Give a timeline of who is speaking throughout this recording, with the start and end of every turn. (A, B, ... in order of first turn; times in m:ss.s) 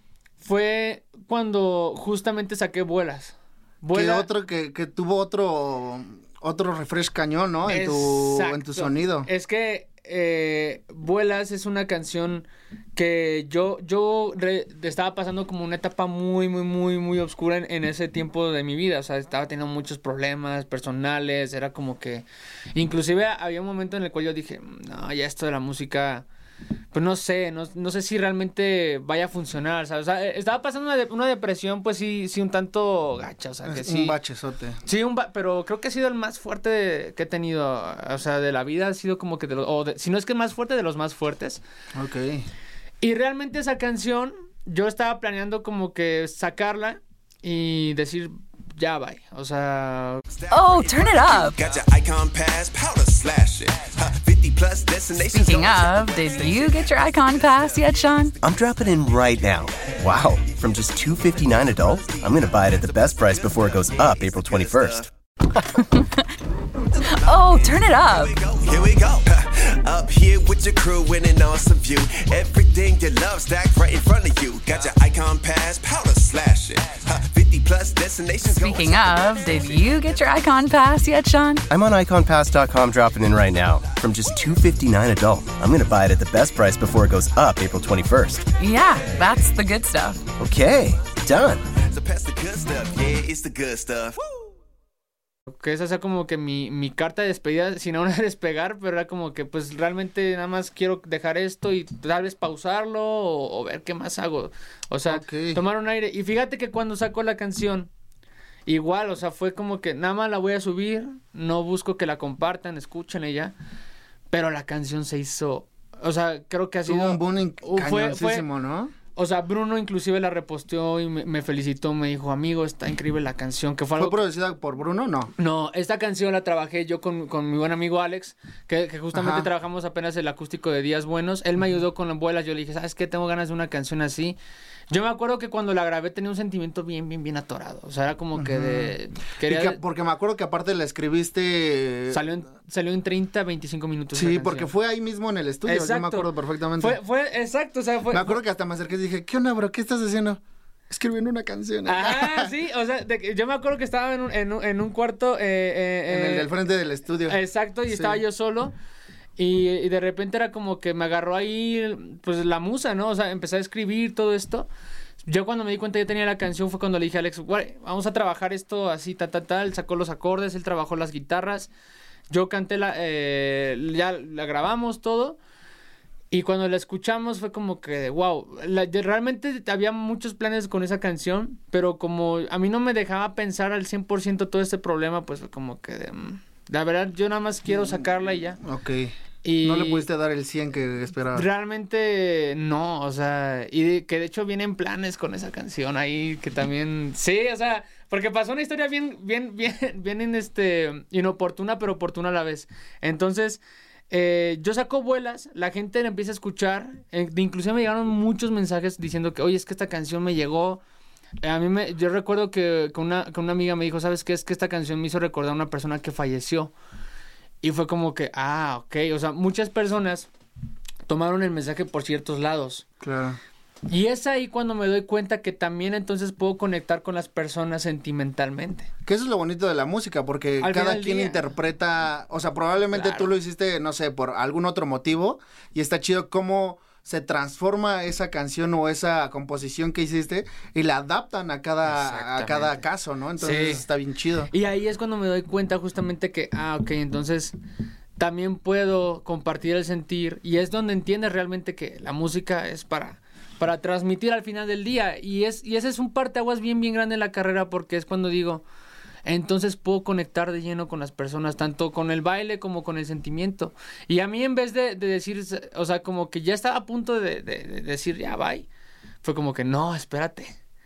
0:00.4-0:04.3 A
0:03.9-0:09.3 B
0:07.7-0:26.2 A
0:26.9-0:34.1 A
0:33.6-0:34.8 B
0:34.8-0:41.6 A
0:41.9-0:42.5 B
0:43.0-0:50.2 A
0:50.3-0:58.3 C
0:50.5-0:51.6 D
0:55.3-0:58.3 D
0:58.4-1:05.1 E
0:59.4-1:00.5 C
1:02.0-1:05.1 C
1:05.7-1:06.2 D
1:07.1-1:19.9 C
1:07.1-1:08.4 D
1:18.5-1:21.6 D
1:21.7-1:28.4 E
1:28.6-1:30.2 D
1:30.4-1:31.6 E
1:31.8-1:34.2 C
1:35.5-1:47.9 A
1:45.1-1:45.6 B
1:48.7-1:53.5 A
1:54.3-1:58.5 A
1:56.9-1:58.9 B
1:59.1-2:04.2 A
2:04.0-2:05.3 B
2:05.4-2:14.4 A
2:09.1-2:09.5 B
2:14.9-2:19.8 A
2:18.4-2:22.3 B
2:22.1-2:24.7 A
2:24.1-2:27.0 B
2:25.6-2:28.4 A
2:28.1-2:32.5 B
2:31.8-2:36.5 A
2:36.1-2:38.2 B
2:37.3-2:38.7 A
2:39.4-2:44.7 A
2:45.2-2:51.7 A
2:52.3-2:55.4 A
2:56.3-3:08.6 A
3:08.6-3:11.5 B
3:09.4-3:10.1 A
3:11.3-3:30.8 A
3:31.4-3:36.7 A
3:37.6-3:40.3 A
3:41.1-3:42.8 A
3:43.0-3:43.4 B
3:43.9-3:48.9 A
3:49.0-4:04.5 B
3:50.6-3:51.4 A
3:52.9-3:53.3 A
4:01.9-4:02.8 A
4:03.4-4:03.8 A
4:04.5-4:07.5 A
4:08.2-4:18.6 A
4:19.2-4:28.7 A
4:29.2-4:30.5 A